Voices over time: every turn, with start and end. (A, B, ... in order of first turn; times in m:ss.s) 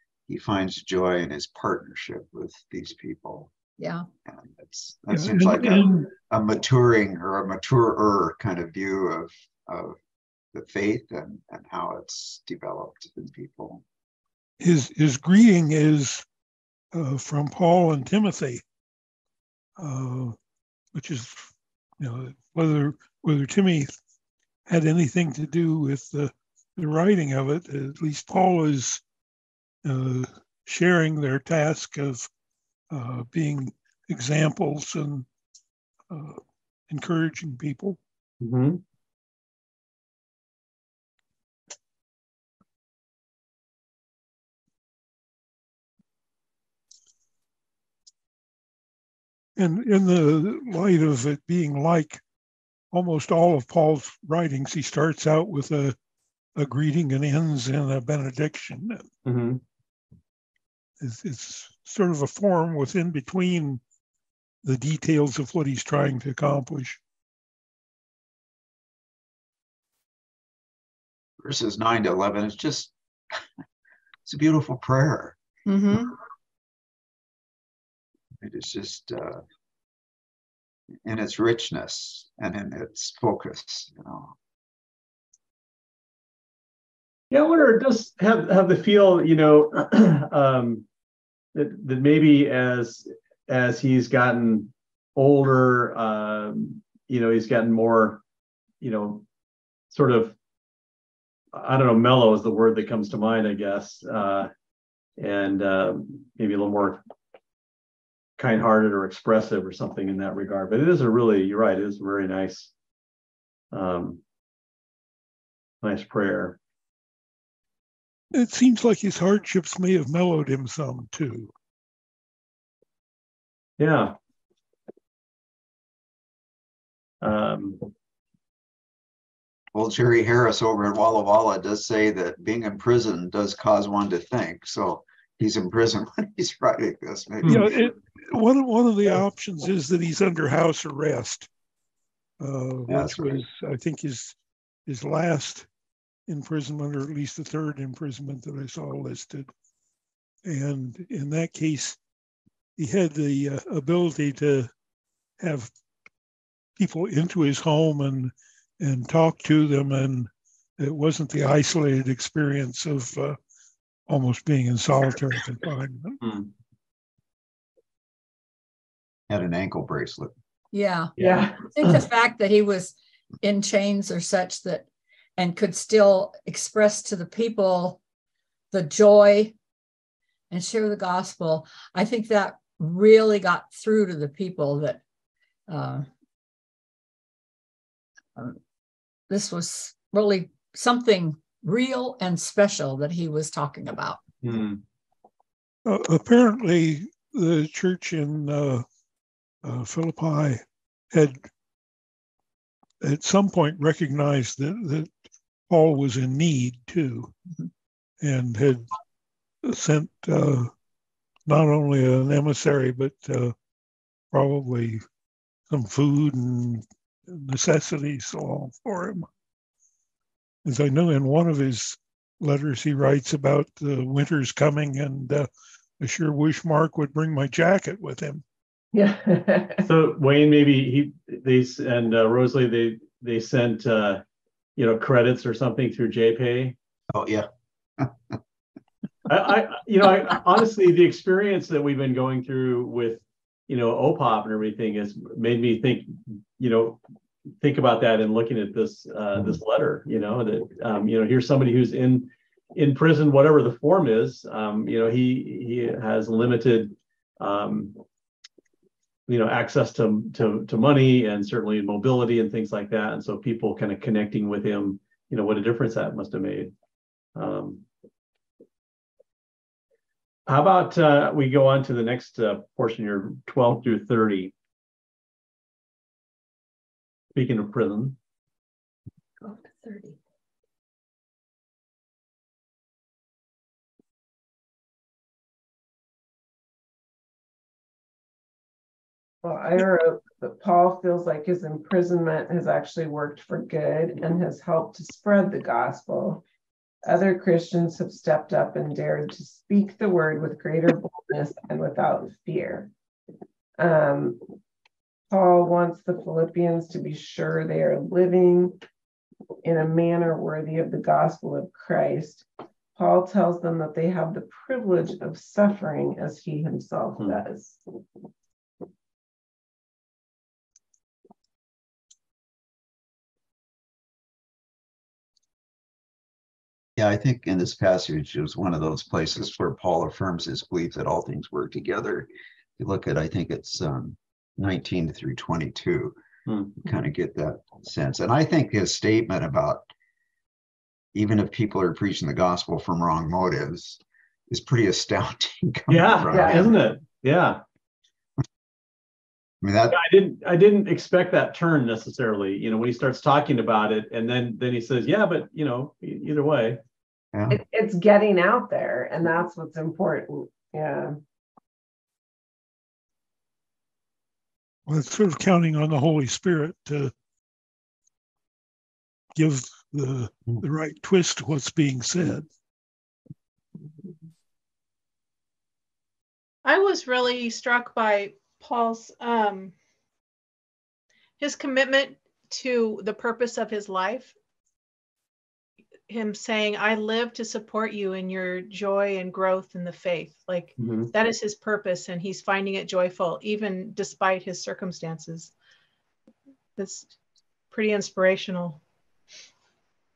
0:00.3-0:03.5 A
0:03.8-0:04.0 B
0:04.2-0:10.0 A
0:05.1-0:06.1 C
0:10.5-0:13.8 A
0:14.6-0:16.2 C
0:16.9-0:18.6 C
0:19.8-0:20.4 C
0:20.9-0:23.9 C
0:24.7-0:29.0 C
0:29.8-0:32.3 C
0:32.9-0:35.2 C
0:36.1-0:38.0 C
0:38.4-0:38.8 D
0:49.6-0:52.2 C
0:52.9-0:56.0 C
0:56.6-0:59.0 C
0:59.2-0:59.6 D
1:01.0-1:03.8 C
1:04.6-1:07.0 C
1:11.4-1:12.9 A
1:14.2-1:15.4 A
1:18.4-1:19.4 A
1:21.0-1:24.3 A
1:27.3-1:30.8 D
1:31.5-1:38.2 D
1:38.8-1:39.2 D
1:39.9-1:40.3 D
1:41.5-1:44.5 D
1:45.2-1:47.0 D
1:48.4-1:52.7 D
1:53.7-1:54.2 D
1:55.8-1:56.6 D
1:58.3-2:01.5 C
2:03.8-2:04.1 D
2:07.2-2:07.9 D
2:09.7-2:17.7 A
2:17.4-2:21.5 C
2:22.4-2:24.4 C
2:22.9-2:23.4 A
2:24.9-2:25.7 C
2:26.3-2:29.5 C
2:30.4-2:32.0 C
2:32.8-2:34.7 C
2:35.4-2:35.7 C
2:36.8-2:43.4 C
2:44.1-2:46.2 C
2:46.2-2:46.5 D
2:49.3-2:50.3 A
2:50.7-2:51.1 B
2:51.2-2:51.5 D
2:51.2-2:51.7 E
2:51.7-2:54.8 B
2:55.4-2:58.0 B
2:58.7-2:59.5 B
3:00.5-3:05.0 B
3:05.7-3:06.1 B
3:09.3-3:14.2 B
3:14.4-3:14.8 D
3:15.8-3:18.8 C
3:19.6-3:21.4 C
3:23.0-3:25.1 C
3:25.7-3:27.3 C
3:28.2-3:28.9 C
3:29.6-3:30.7 C
3:31.5-3:33.5 C
3:34.3-3:35.0 C
3:35.7-3:39.3 C
3:40.6-3:45.5 C
3:46.0-3:48.4 C
3:48.9-3:49.8 E
3:49.8-3:54.2 D
3:54.8-3:56.8 D
3:57.1-3:57.5 A
3:59.2-4:07.0 D
4:07.6-4:18.0 D
4:19.3-4:26.7 D
4:27.4-4:27.8 D
4:30.5-4:34.5 D
4:37.3-4:38.2 D
4:39.4-4:40.2 B
4:49.4-4:56.4 E
4:57.0-5:02.9 E
5:03.8-5:04.5 E
5:05.3-5:08.8 E
5:09.6-5:17.8 E
5:27.0-5:32.3 A
5:32.8-5:36.2 A
5:36.5-5:36.8 D
5:36.8-5:39.9 A
5:41.1-5:46.8 A
5:45.9-5:47.6 D
5:46.3-5:46.7 E
5:49.6-5:50.0 A
5:49.9-5:56.8 D
5:57.3-5:57.6 A
5:57.5-6:01.2 E
6:04.9-6:07.1 C
6:09.4-6:12.4 C
6:16.6-6:19.7 F
6:21.4-6:24.3 F
6:26.1-6:35.5 F
6:30.8-6:31.1 D
6:36.8-6:37.2 F
6:37.7-6:38.8 F